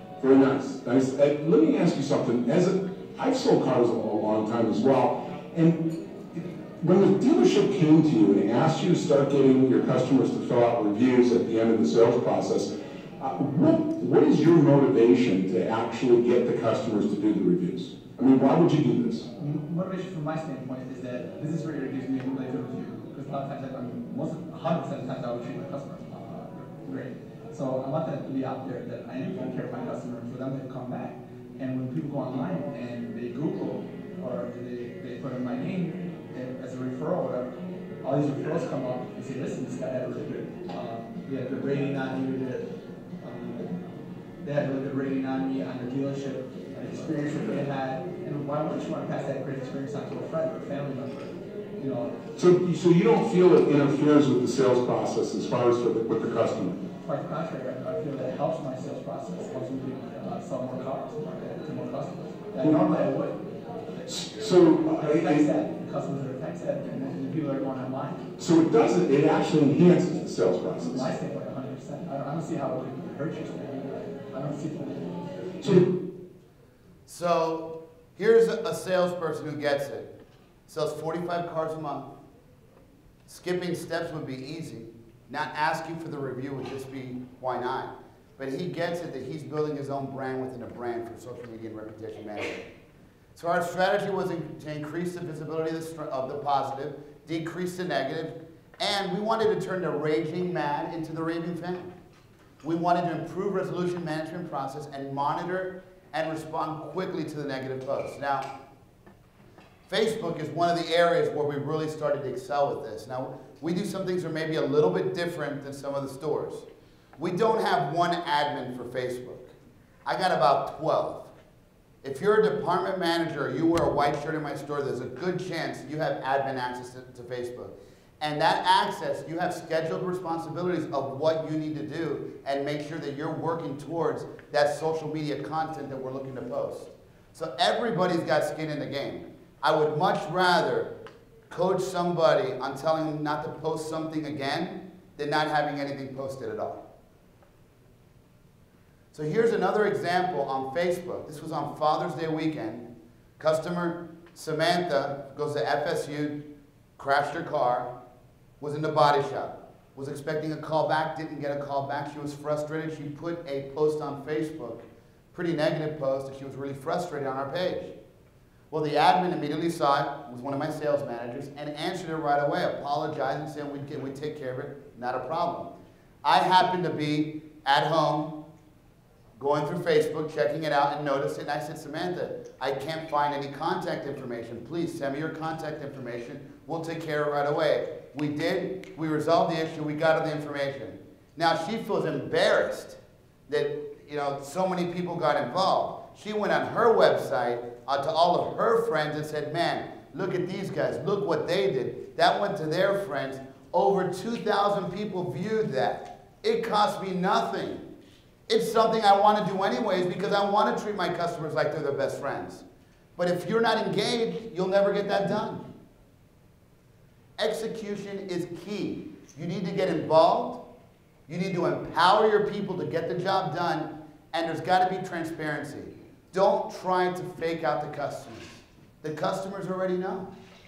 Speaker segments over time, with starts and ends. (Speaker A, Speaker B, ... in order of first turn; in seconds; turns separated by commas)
Speaker A: 0.2-19.3, Speaker B: 19.4-43.8, Speaker B: 44.4-52.2, Speaker A: 52.4-56.8, Speaker B: 57.0-63.4, Speaker A: 64.1-65.5, Speaker B: 64.8-68.2, Speaker A: 68.4-71.1, Speaker B: 70.8-75.2, Speaker A: 75.6-75.9, Speaker C: 77.1-80.1, Speaker C: 80.7-82.1, Speaker C: 83.3-92.7, Speaker C: 93.3-101.9, Speaker C: 102.6-108.5, Speaker C: 109.9-116.7, Speaker C: 117.2-119.5, Speaker C: 120.0-121.3, Speaker C: 122.0-140.9, Speaker C: 141.5-146.8, Speaker C: 149.1-152.9, Speaker C: 153.4-156.4, Speaker C: 157.0-157.9, Speaker C: 158.6-167.9, Speaker C: 168.7-175.7, Speaker C: 176.2-178.3, Speaker C: 179.4-207.9, Speaker C: 208.5-212.6, Speaker C: 213.2-215.7, Speaker C: 217.4-220.6, Speaker C: 221.3-230.3